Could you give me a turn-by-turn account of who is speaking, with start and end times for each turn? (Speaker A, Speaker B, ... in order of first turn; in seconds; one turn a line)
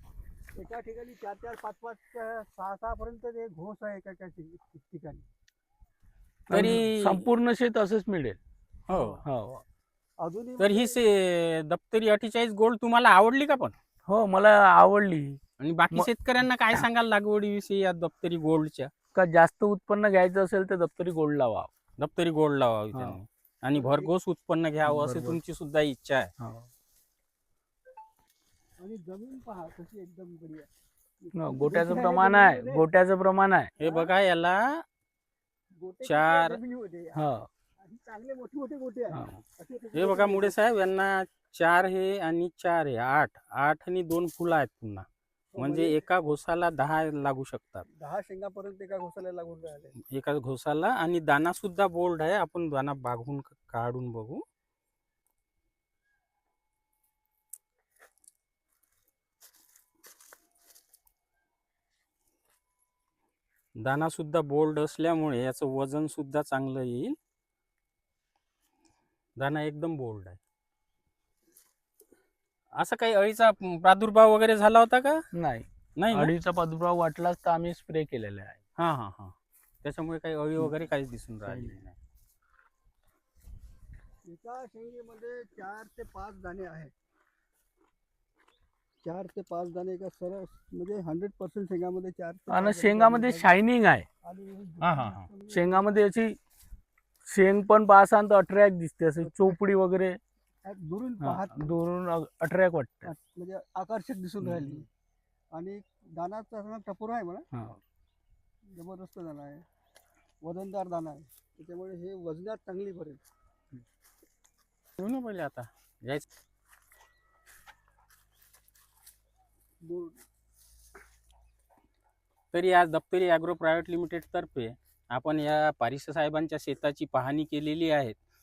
Speaker A: 0.5-5.3
Speaker B: 6.5-8.4
Speaker C: 6.5-7.3
Speaker C: 8.9-9.2
Speaker A: 8.9-9.2
Speaker B: 9.2-9.6
Speaker A: 10.2-11.0
Speaker C: 10.6-13.7
Speaker B: 14.1-15.4
Speaker C: 15.6-18.9
Speaker B: 19.1-21.7
Speaker C: 22.0-26.3
Speaker A: 23.8-24.1
Speaker B: 24.9-25.4
Speaker B: 26.4-26.7
Speaker A: 28.8-30.7
Speaker A: 31.2-32.9
Speaker B: 31.4-33.7
Speaker A: 33.8-34.1
Speaker C: 33.8-34.8
Speaker A: 35.8-37.2
Speaker C: 36.1-36.6
Speaker B: 37.2-37.5
Speaker A: 37.8-40.6
Speaker B: 39.1-39.4
Speaker C: 39.9-47.9
Speaker A: 45.5-46.0
Speaker A: 47.9-50.0
Speaker C: 50.1-54.4
Speaker C: 63.8-67.2
Speaker C: 69.4-70.4
Speaker C: 72.8-75.2
Speaker B: 75.3-78.6
Speaker C: 76.0-76.3
Speaker C: 78.8-82.0
Speaker B: 81.5-81.8
Speaker A: 84.2-86.9
Speaker A: 89.0-93.5
Speaker B: 92.5-94.1
Speaker A: 94.2-96.0
Speaker C: 94.8-95.3
Speaker B: 95.5-96.4
Speaker B: 97.3-100.2
Speaker A: 99.2-99.6
Speaker A: 100.7-101.6
Speaker B: 101.2-103.1
Speaker A: 103.1-104.9
Speaker B: 104.4-104.8
Speaker A: 105.5-107.5
Speaker B: 107.5-107.8
Speaker A: 108.7-109.7
Speaker A: 110.4-113.2
Speaker C: 115.0-116.2
Speaker A: 119.8-120.2
Speaker C: 122.5-128.2